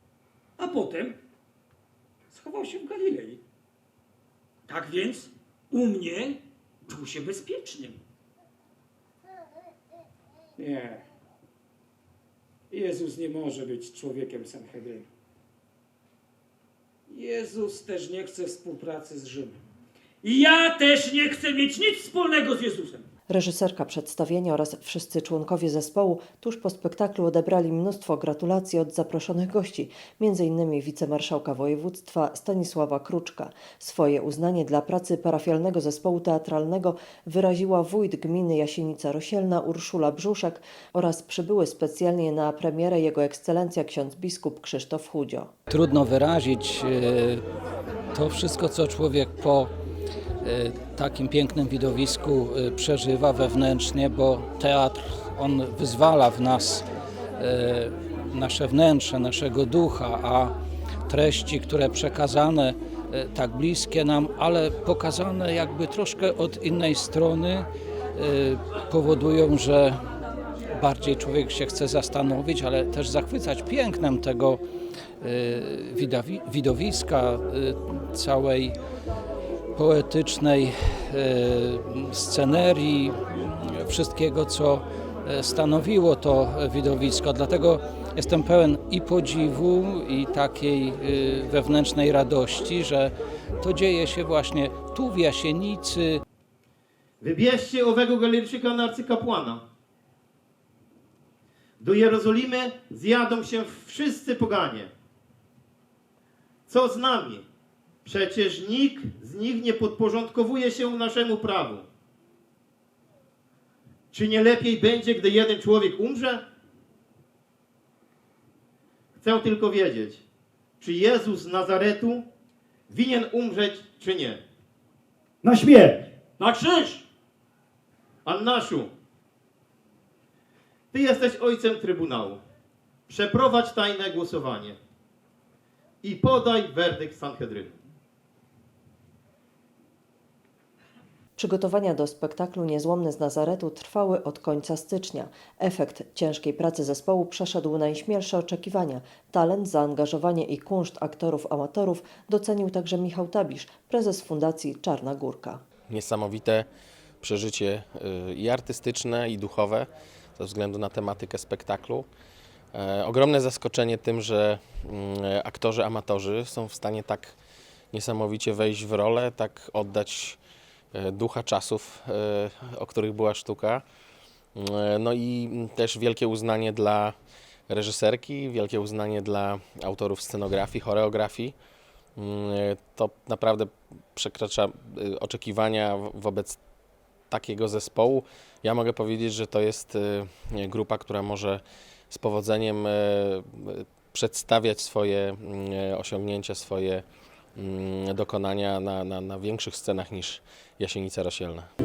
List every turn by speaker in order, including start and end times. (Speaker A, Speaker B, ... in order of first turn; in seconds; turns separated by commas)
Speaker A: 0.6-1.2, Speaker A: 2.3-3.4, Speaker A: 4.7-8.0, Speaker A: 10.6-11.0, Speaker A: 12.7-15.1, Speaker A: 17.1-19.6, Speaker A: 20.2-23.0, Speaker B: 23.3-45.5, Speaker C: 45.7-47.4, Speaker C: 48.1-49.7, Speaker C: 50.4-56.9, Speaker C: 57.4-60.5, Speaker C: 61.1-70.0, Speaker C: 70.8-74.6, Speaker C: 75.2-78.8, Speaker C: 79.7-96.2, Speaker D: 97.2-99.6, Speaker D: 101.8-104.9, Speaker D: 106.7-107.4, Speaker D: 108.0-111.9, Speaker D: 114.1-116.4, Speaker D: 119.2-120.2, Speaker D: 120.8-122.2, Speaker D: 122.9-124.4, Speaker A: 125.4-126.0, Speaker D: 126.7-127.0, Speaker D: 128.2-128.9, Speaker D: 130.9-132.4, Speaker D: 133.1-134.8, Speaker D: 136.0-137.8, Speaker B: 141.3-155.6, Speaker E: 155.9-156.7, Speaker E: 157.2-162.1, Speaker E: 162.7-167.3, Speaker E: 167.9-170.4, Speaker E: 170.9-173.8, Speaker E: 174.5-177.2, Speaker E: 177.7-181.5, Speaker E: 182.2-186.6, Speaker E: 187.3-197.0, Speaker E: 197.5-201.7